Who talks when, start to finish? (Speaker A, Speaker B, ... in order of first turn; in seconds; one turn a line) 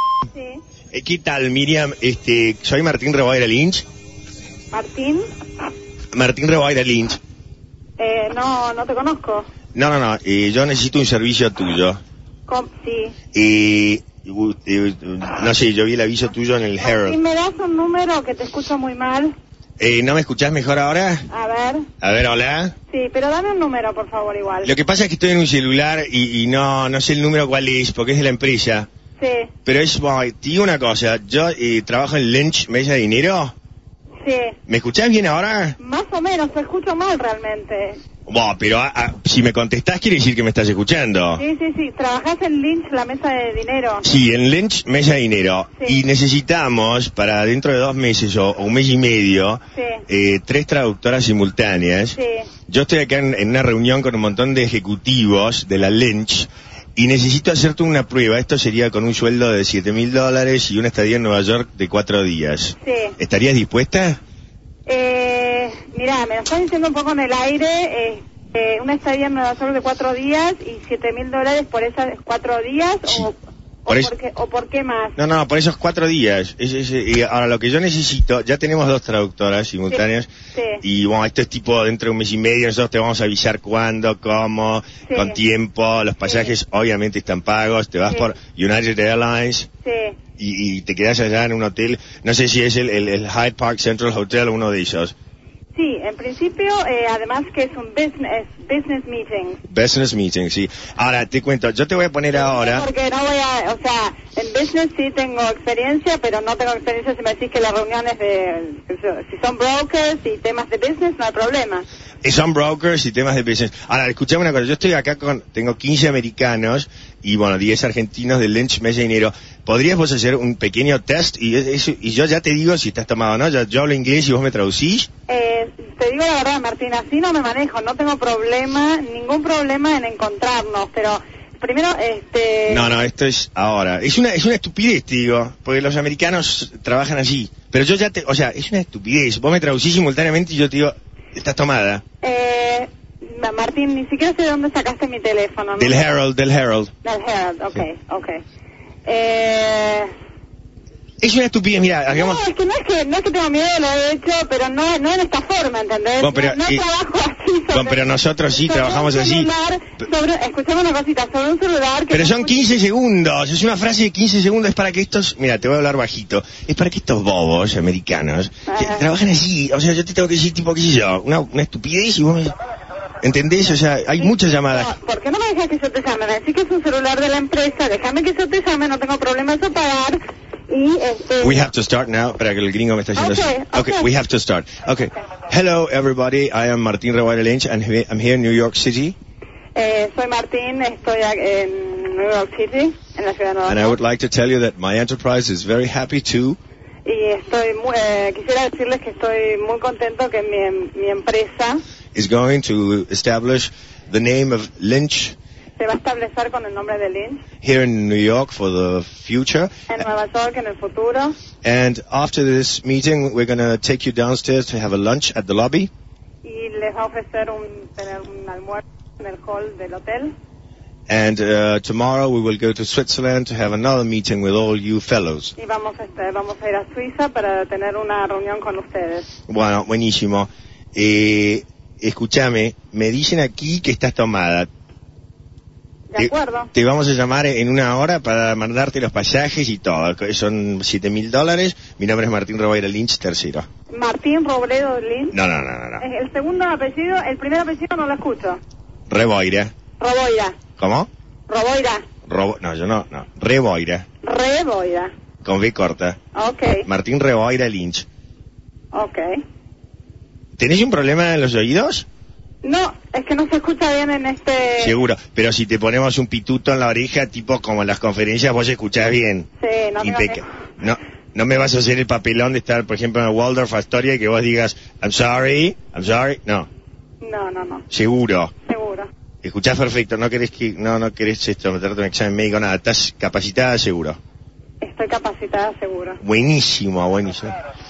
Speaker A: 0.3-0.6
Speaker B: 0.9-3.9
Speaker A: 4.7-5.2
Speaker B: 6.1-7.2
Speaker A: 8.0-9.5
Speaker B: 9.8-12.0
Speaker A: 12.5-13.2
Speaker B: 13.3-17.2
Speaker A: 16.8-19.3
Speaker B: 19.8-21.3
Speaker A: 21.3-21.9
Speaker B: 22.0-22.8
Speaker A: 22.9-24.7
Speaker B: 24.6-28.9
Speaker A: 29.2-29.5
Speaker B: 29.7-33.5
Speaker A: 34.2-34.6
Speaker B: 34.7-35.8
Speaker A: 35.8-38.0
Speaker B: 38.3-41.4
Speaker A: 41.4-44.1
Speaker B: 44.0-52.2
Speaker A: 49.8-50.0
Speaker A: 52.2-52.5
Speaker B: 52.7-64.2
Speaker A: 62.8-63.2
Speaker A: 64.9-75.2
Speaker B: 75.2-80.3
Speaker A: 80.5-80.8
Speaker B: 80.8-89.7
Speaker A: 85.1-85.4
Speaker A: 86.3-86.5
Speaker A: 89.8-90.2
Speaker B: 90.4-95.1
Speaker A: 95.8-99.6
Speaker B: 99.7-102.9
Speaker A: 102.3-111.9
Speaker B: 112.2-125.1
Speaker A: 125.3-132.9
Speaker B: 132.7-142.0
Speaker A: 142.2-146.1
Speaker B: 145.8-146.9
Speaker A: 147.0-148.4
Speaker A: 149.1-150.1
Speaker B: 151.2-152.4
Speaker A: 152.1-162.6
Speaker B: 156.2-156.8
Speaker B: 157.7-159.5
Speaker B: 162.1-172.6
Speaker A: 168.7-169.1
Speaker B: 173.2-174.9
Speaker A: 174.2-181.6
Speaker B: 181.4-189.2
Speaker A: 183.2-184.1
Speaker A: 189.8-194.0
Speaker B: 193.7-196.6
Speaker A: 197.1-201.8
Speaker B: 202.2-205.4
Speaker A: 205.8-207.4
Speaker B: 207.6-209.9
Speaker A: 209.9-211.3
Speaker B: 211.6-215.9
Speaker A: 216.4-220.3
Speaker B: 221.1-225.5
Speaker A: 225.6-229.3
Speaker B: 229.5-234.7
Speaker A: 236.1-236.7
Speaker B: 236.2-243.7
Speaker A: 243.9-245.4
Speaker B: 245.3-246.1
Speaker A: 246.0-248.6
Speaker B: 249.1-249.7
Speaker A: 250.0-250.6
Speaker B: 250.8-251.1
Speaker A: 251.5-252.1
Speaker B: 252.3-254.1
Speaker A: 254.2-255.1
Speaker B: 255.4-256.2
Speaker A: 256.3-256.9
Speaker B: 256.9-258.1
Speaker A: 258.9-259.4
Speaker B: 260.6-262.1
Speaker A: 262.6-264.9
Speaker B: 264.8-269.5
Speaker A: 269.6-270.4
Speaker B: 270.0-276.7
Speaker A: 277.2-277.9
Speaker B: 277.9-278.5
Speaker A: 278.7-279.1
Speaker B: 279.4-284.2
Speaker A: 284.8-286.2
Speaker B: 286.2-287.6